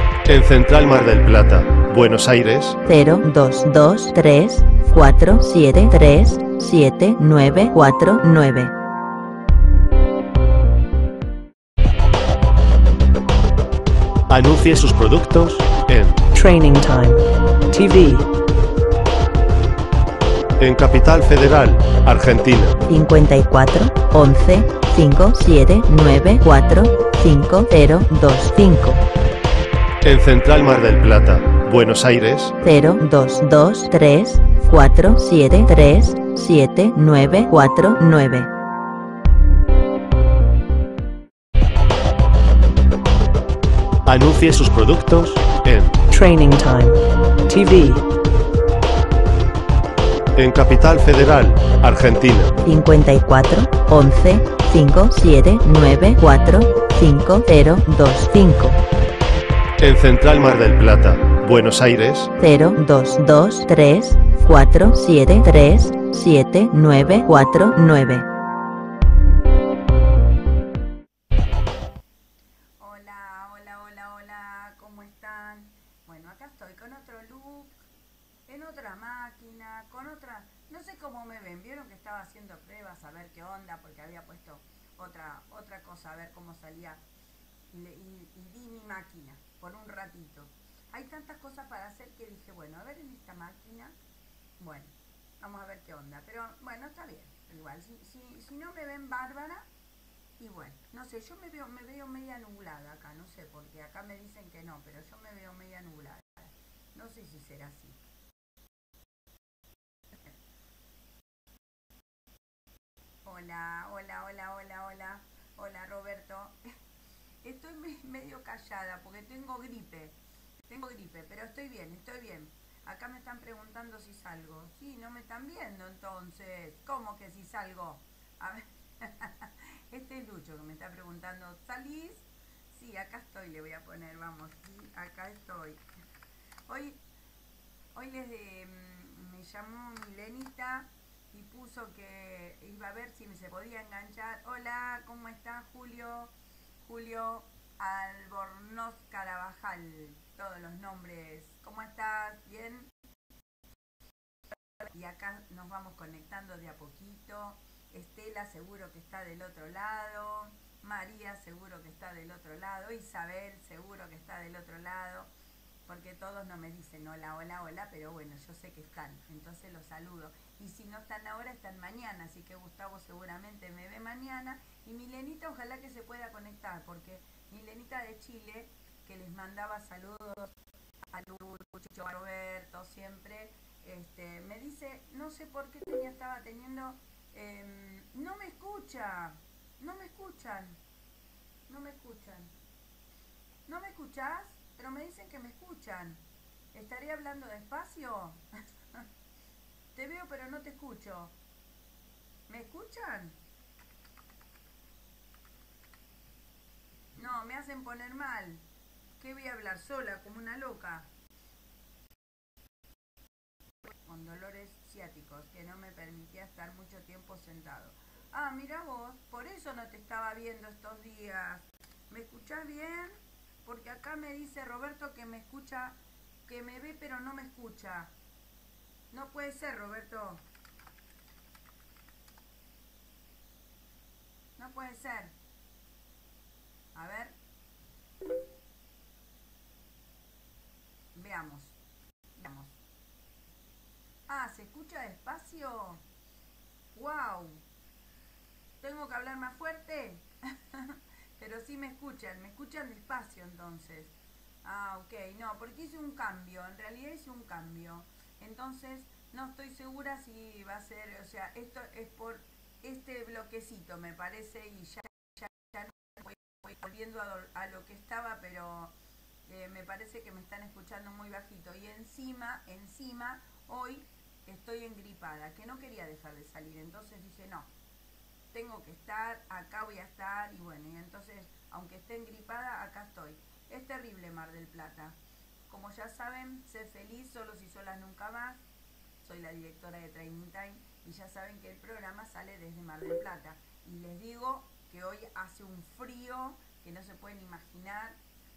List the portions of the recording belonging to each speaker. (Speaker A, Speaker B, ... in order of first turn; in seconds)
Speaker A: 0.2-2.8, 14.3-16.2, 20.6-22.8, 30.0-32.5, 44.0-46.0, 50.3-52.5, 59.8-62.3
Speaker B: 2.9-8.7, 22.9-29.0, 32.6-38.5, 52.6-58.8, 62.4-68.2
Speaker C: 16.4-18.3, 46.1-48.0
Speaker D: 72.8-77.8, 78.5-87.0, 87.7-94.0, 94.6-99.7, 100.4-108.0, 113.2-116.7, 117.4-135.8, 136.7-137.0, 137.9-146.3, 146.8-152.9, 154.8-165.3, 165.9-180.6, 181.1-190.8, 191.7-192.5, 193.7-196.2, 196.7-199.1, 199.9-201.3, 202.5-203.4, 207.2-208.6, 209.2-211.1, 213.8-228.1, 229.1-230.4, 234.6-235.3, 236.9-237.3, 241.1-241.8, 242.4-242.7, 244.3-246.0, 246.9-247.6, 248.8-268.9, 269.4-277.7, 278.5-285.2, 285.7-288.6, 289.2-298.2